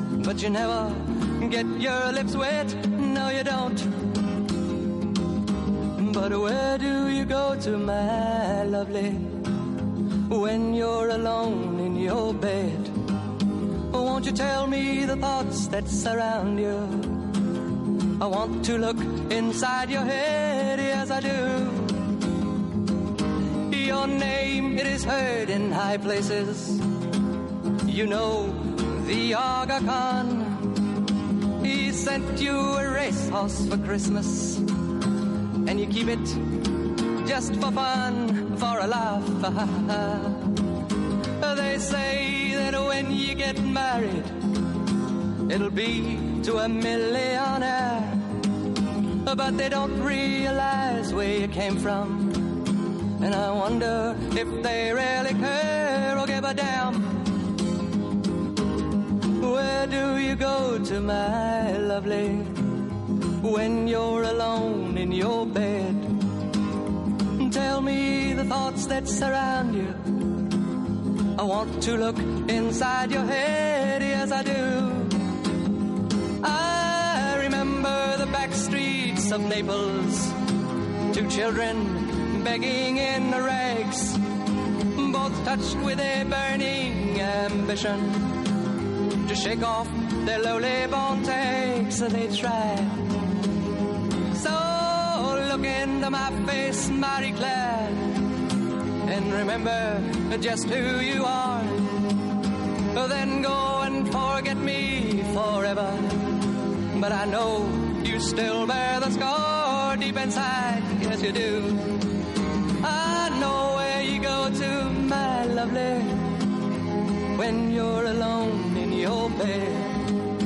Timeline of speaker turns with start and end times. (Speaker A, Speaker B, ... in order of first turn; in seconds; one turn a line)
Speaker A: 0.2-3.9
Speaker A: 6.0-9.4
Speaker A: 10.3-12.9
Speaker A: 13.9-17.1
Speaker A: 18.2-22.0
Speaker A: 23.7-26.8
Speaker A: 27.9-30.7
Speaker A: 31.6-34.6
Speaker A: 35.6-36.4
Speaker A: 37.2-40.5
Speaker A: 41.4-44.4
Speaker A: 45.5-48.2
Speaker A: 49.2-52.4
Speaker A: 53.2-57.1
Speaker A: 59.4-62.6
Speaker A: 63.4-66.1
Speaker A: 67.4-70.0
Speaker A: 71.4-75.2
Speaker A: 76.4-80.3
Speaker A: 81.1-84.2
Speaker A: 85.0-88.2
Speaker A: 89.3-93.0
Speaker A: 94.3-98.1
Speaker A: 99.1-101.8
Speaker A: 102.9-106.1
Speaker A: 106.9-111.8
Speaker A: 112.8-116.2
Speaker A: 117.4-119.9